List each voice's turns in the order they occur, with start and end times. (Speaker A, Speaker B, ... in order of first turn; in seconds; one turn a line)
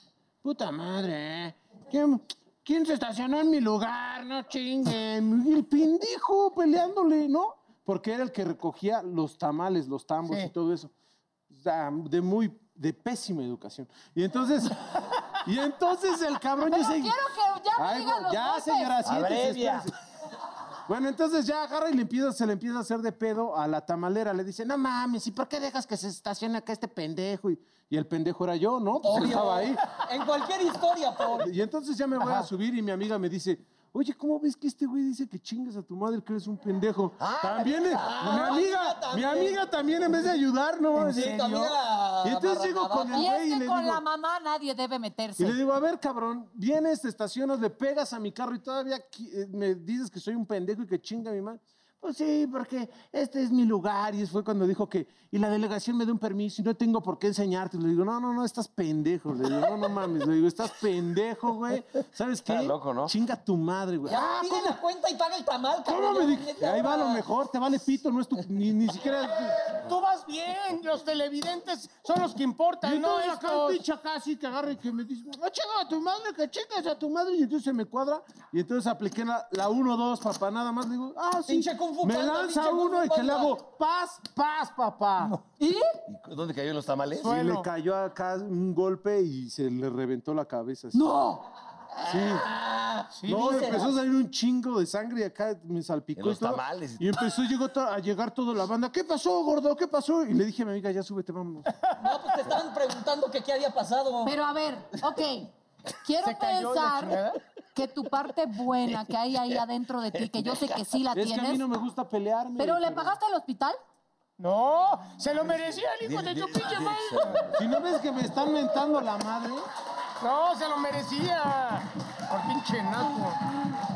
Speaker A: 0.4-10.9
Speaker A: 11.5-17.2
Speaker B: 16.7-18.9
Speaker A: 17.8-19.9
Speaker C: 19.0-19.9
Speaker A: 20.9-29.8
Speaker D: 29.0-31.5
Speaker A: 31.3-44.0
Speaker C: 37.2-38.4
Speaker D: 37.9-39.6
Speaker E: 41.0-41.4
Speaker D: 41.0-43.3
Speaker B: 43.1-45.6
Speaker A: 45.4-64.8
Speaker C: 62.5-63.1
Speaker D: 64.0-67.2
Speaker A: 65.8-69.7
Speaker E: 69.7-73.8
Speaker A: 72.8-85.4
Speaker D: 81.5-83.6
Speaker B: 85.6-86.0
Speaker C: 86.1-87.3
Speaker E: 87.2-87.7
Speaker A: 87.2-91.1
Speaker D: 92.0-93.9
Speaker A: 92.0-92.5
Speaker E: 93.2-93.8
Speaker A: 93.3-101.8
Speaker C: 96.2-97.1
Speaker D: 102.0-104.3
Speaker B: 104.2-105.5
Speaker B: 106.0-107.2
Speaker E: 106.2-107.4
Speaker B: 107.7-111.6
Speaker C: 110.1-110.8
Speaker A: 111.1-113.1
Speaker B: 112.6-113.8
Speaker E: 114.4-117.5
Speaker C: 116.0-117.6
Speaker A: 117.5-119.7
Speaker E: 120.2-123.4